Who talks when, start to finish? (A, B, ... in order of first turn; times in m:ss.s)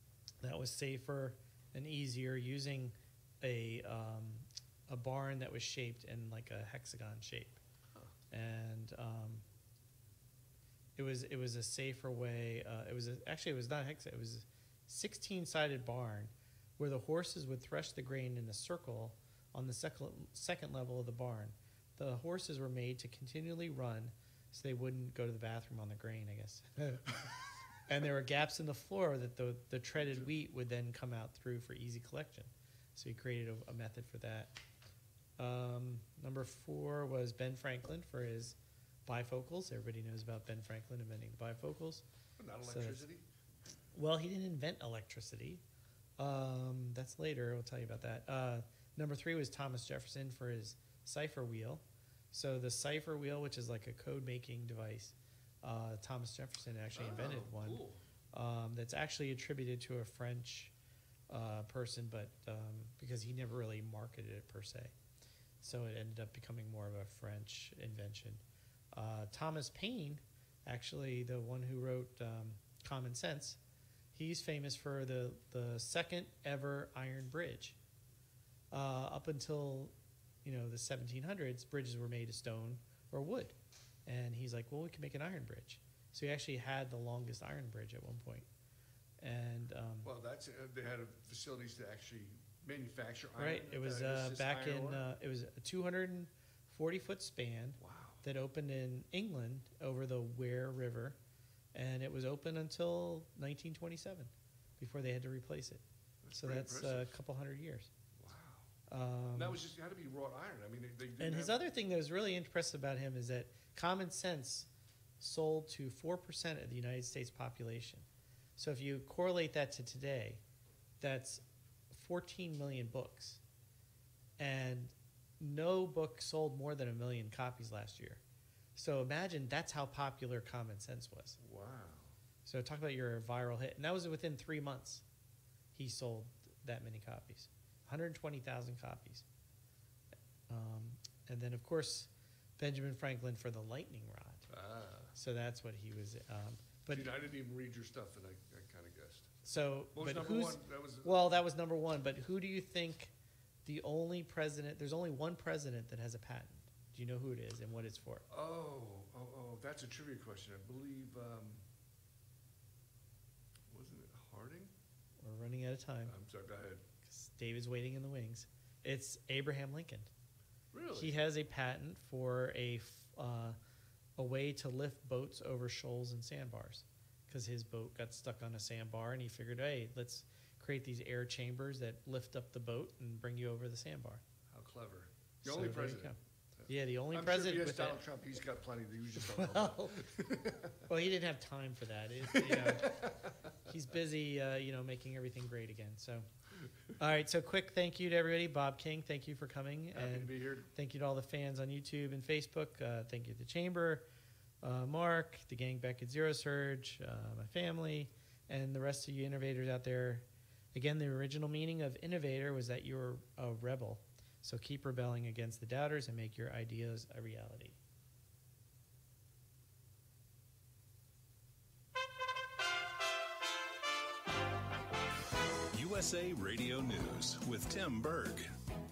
0:00.4-0:07.6 A
0:08.3-0:09.4 A
0:11.0-0:34.6 A
0:35.4-0:42.0 A
0:42.4-0:43.2 B
0:42.7-0:43.0 A
0:44.0-0:45.6 A
0:46.2-0:57.8 A
0:56.9-0:58.0 B
0:58.3-1:00.7 A
1:01.3-1:04.9 A
1:05.6-1:08.4 A
1:08.9-1:13.6 A
1:14.1-1:17.8 A
1:18.7-1:23.6 A
1:24.1-1:28.5 A
1:29.2-1:30.1 A
1:30.0-1:35.0 B
1:33.4-1:41.2 A
1:37.8-1:38.2 B
1:41.7-1:45.8 A
1:46.2-1:47.1 B
1:46.4-1:47.9 A
1:48.2-1:48.7 B
1:48.9-1:49.6 A
1:49.3-1:51.6 B
1:51.2-1:54.7 A
1:55.2-1:58.0 A
1:58.6-2:00.4 A
2:01.0-2:03.4 A
2:04.4-2:08.2 A
2:08.8-2:11.4 A
2:11.4-2:12.2 B
2:12.5-2:15.0 A
2:15.8-2:19.2 A
2:20.5-2:24.5 A
2:24.5-2:25.1 B
2:25.2-2:27.1 A
2:26.9-2:31.2 B
2:29.5-2:33.1 A
2:33.6-2:38.2 A
2:38.3-2:41.6 B
2:43.7-2:44.7 B
2:45.2-2:46.1 A
2:46.1-2:46.8 B
2:47.0-2:50.1 A
2:50.7-2:51.2 B
2:51.0-2:53.6 A
2:54.2-3:04.2 A
3:04.5-3:10.8 B
3:05.4-3:06.2 A
3:06.7-3:08.0 A
3:09.4-3:10.1 A
3:10.9-3:13.1 A
3:12.3-3:13.5 B
3:13.6-3:16.3 A
3:17.0-3:24.0 A
3:20.0-3:20.7 B
3:24.6-3:37.8 A
3:45.7-3:48.5 C